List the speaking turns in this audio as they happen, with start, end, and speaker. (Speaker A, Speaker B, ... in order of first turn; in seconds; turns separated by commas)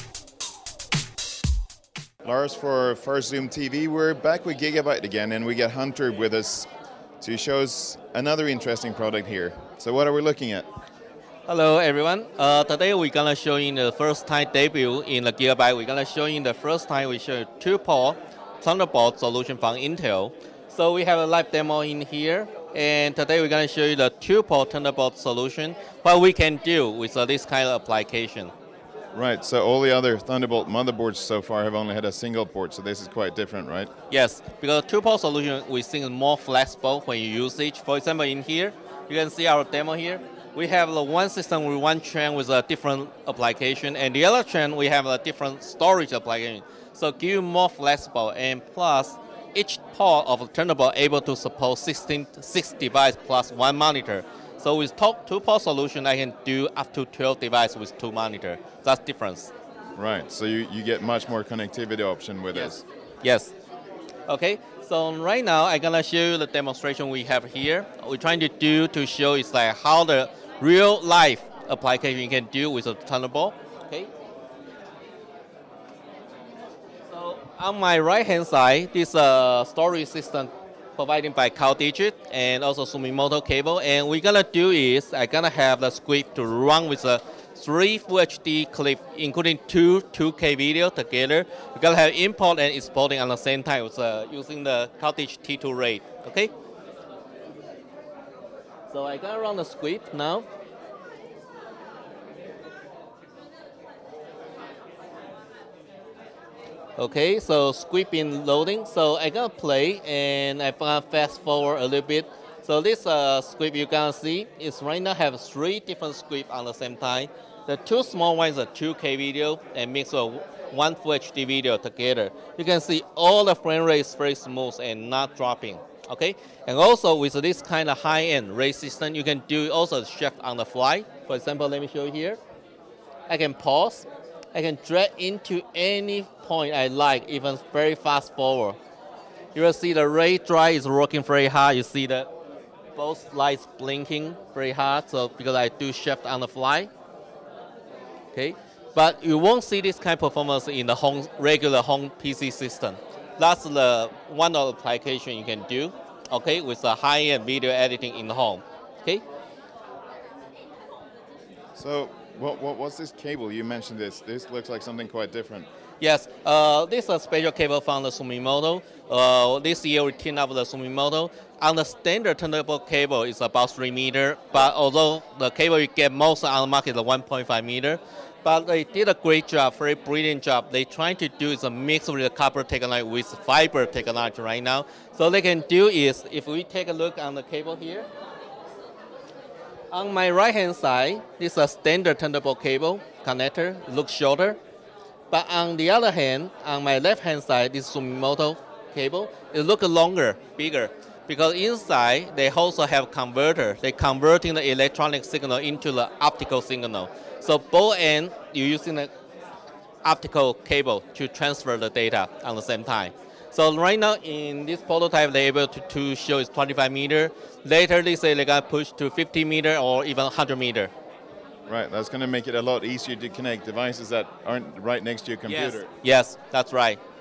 Speaker A: 2.2-6.7, Speaker A: 7.2-10.7, Speaker B: 11.5-28.5, Speaker A: 29.1-33.9, Speaker B: 34.1-59.5, Speaker A: 60.0-62.8, Speaker B: 63.2-63.5, Speaker B: 64.3-74.1, Speaker B: 77.1-96.5, Speaker B: 98.9-100.5, Speaker B: 107.0-132.4, Speaker B: 133.3-138.8, Speaker B: 139.5-142.3, Speaker B: 142.9-146.9, Speaker B: 148.3-159.2, Speaker A: 161.7-165.7, Speaker B: 166.0-188.1, Speaker B: 189.9-194.6, Speaker B: 195.3-209.1, Speaker B: 210.0-220.9, Speaker A: 221.7-225.9, Speaker B: 225.5-227.0